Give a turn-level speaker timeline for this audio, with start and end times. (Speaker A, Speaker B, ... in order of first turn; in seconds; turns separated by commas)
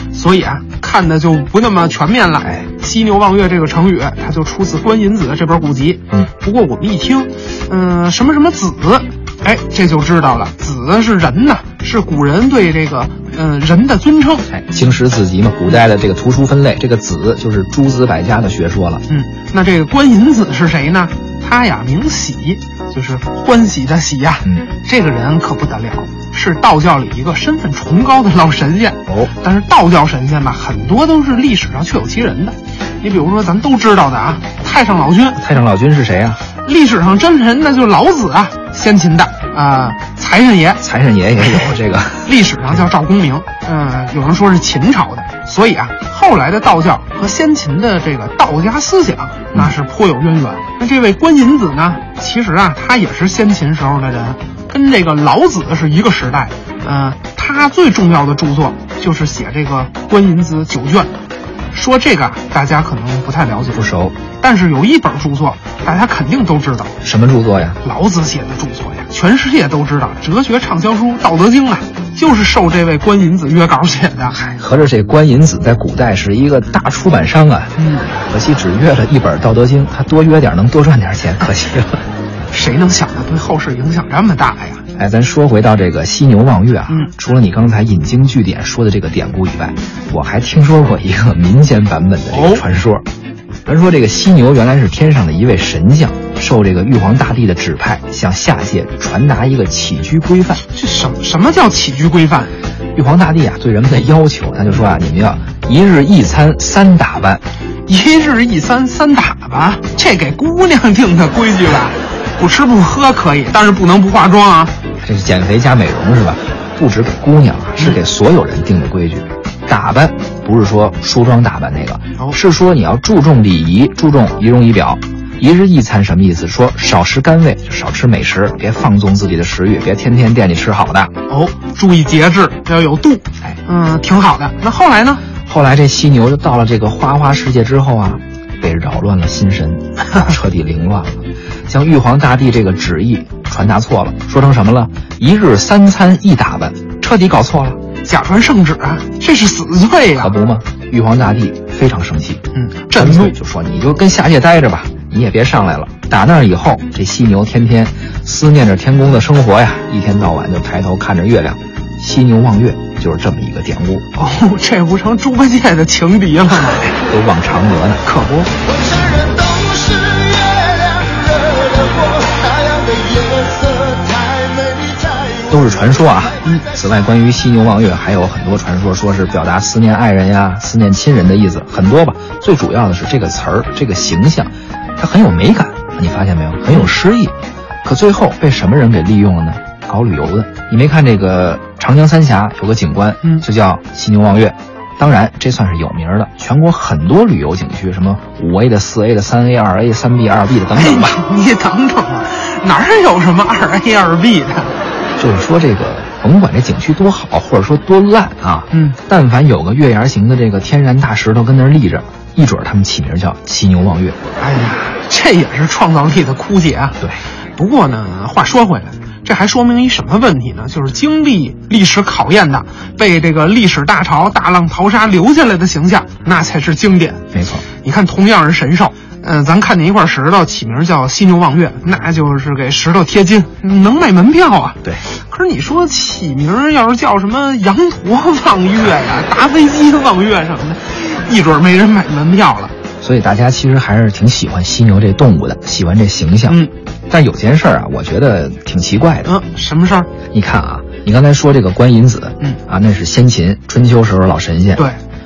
Speaker A: 0.1-14.5, Speaker B: 14.5-19.0, Speaker A: 19.1-35.4, Speaker B: 29.1-29.3, Speaker B: 35.4-36.4, Speaker A: 36.6-40.8, Speaker B: 40.8-42.8, Speaker A: 41.4-41.7, Speaker A: 42.2-61.1, Speaker A: 61.7-63.8, Speaker B: 63.7-64.2, Speaker A: 64.4-66.9, Speaker B: 67.0-67.8, Speaker A: 67.8-74.3, Speaker B: 74.3-82.0, Speaker A: 77.8-78.1, Speaker A: 82.5-84.8, Speaker B: 85.0-93.0, Speaker A: 92.3-92.6, Speaker B: 93.6-100.6, Speaker A: 100.7-102.5, Speaker B: 102.9-107.4, Speaker A: 107.9-114.7, Speaker B: 115.0-131.1, Speaker A: 131.3-135.2, Speaker B: 135.4-147.8, Speaker A: 148.0-150.3, Speaker B: 150.2-164.1, Speaker A: 152.5-153.3, Speaker A: 164.1-166.9, Speaker B: 166.9-168.0, Speaker A: 168.0-168.5, Speaker C: 169.5-174.9, Speaker B: 175.5-201.2, Speaker A: 200.7-204.7, Speaker B: 205.2-214.2, Speaker A: 208.7-209.0, Speaker A: 214.4-217.0, Speaker A: 217.6-227.2, Speaker B: 227.3-227.6, Speaker A: 227.8-242.7, Speaker B: 243.0-249.3, Speaker A: 249.2-250.1, Speaker B: 250.3-254.9